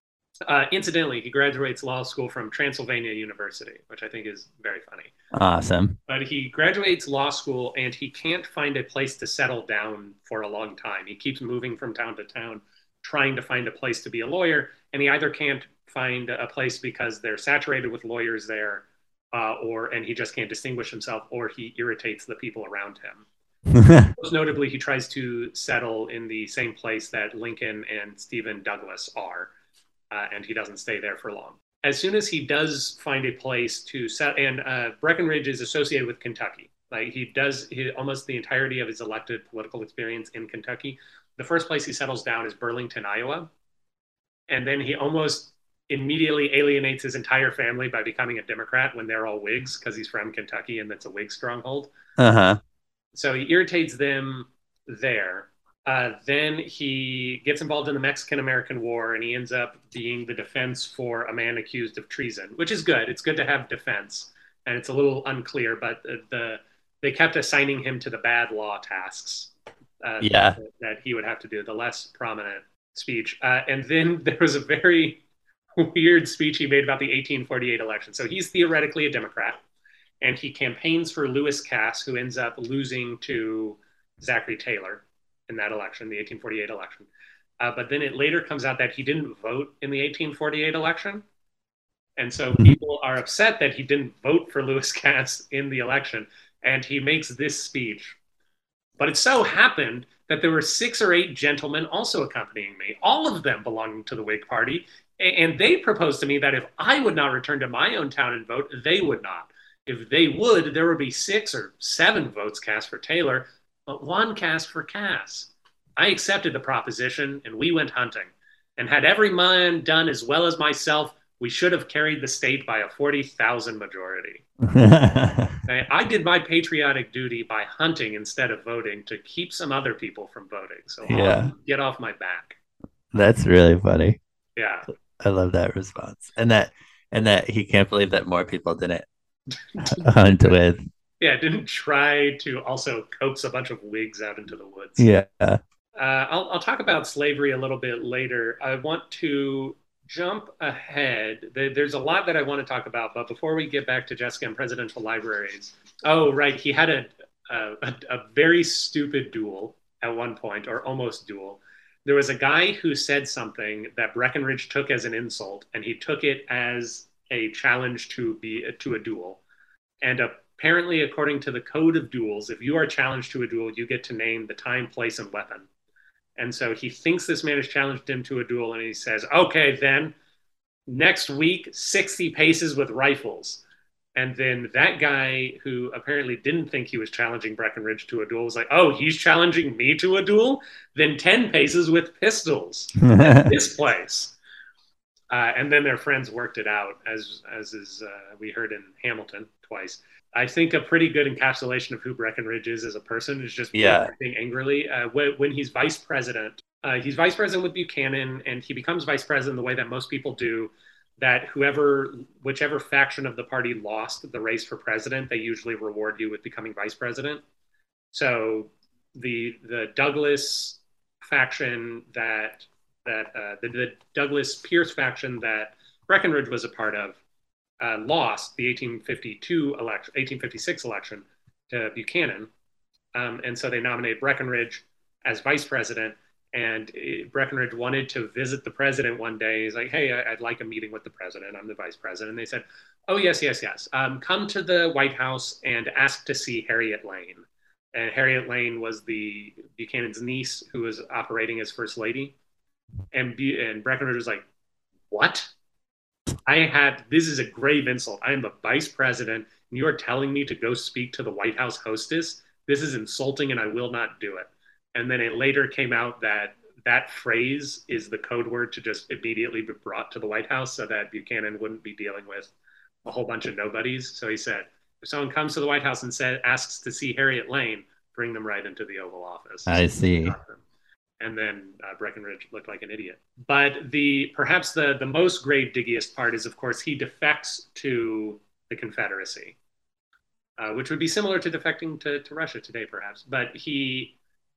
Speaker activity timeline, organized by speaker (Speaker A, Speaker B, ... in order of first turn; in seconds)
Speaker A: 0.4-5.1, 6.1-23.2, 24.1-29.5, 30.1-43.5, 44.5-51.9, 53.1-75.2, 75.8-79.6, 80.2-87.1, 87.6-91.2, 92.2-98.2, 99.0-124.4, 125.7-132.6, 134.6-134.9, 140.3-140.5, 141.2-145.0, 145.9-169.4, 170.0-175.7, 176.3-180.1, 180.9-183.6, 184.1-194.4, 195.3-217.4, 218.1-227.2, 227.8-232.5, 233.1-252.3, 253.1-254.5, 255.1-255.5, 256.4-272.5, 273.0-280.6, 281.2-289.6, 290.6-294.1
Speaker B: 5.3-6.0, 23.7-24.1, 52.2-52.6, 70.2-70.6, 124.6-125.6, 131.1-131.5, 133.1-134.2, 135.2-139.1, 139.8-140.8, 145.0-145.6, 193.0-193.5, 203.7-204.1, 279.7-280.4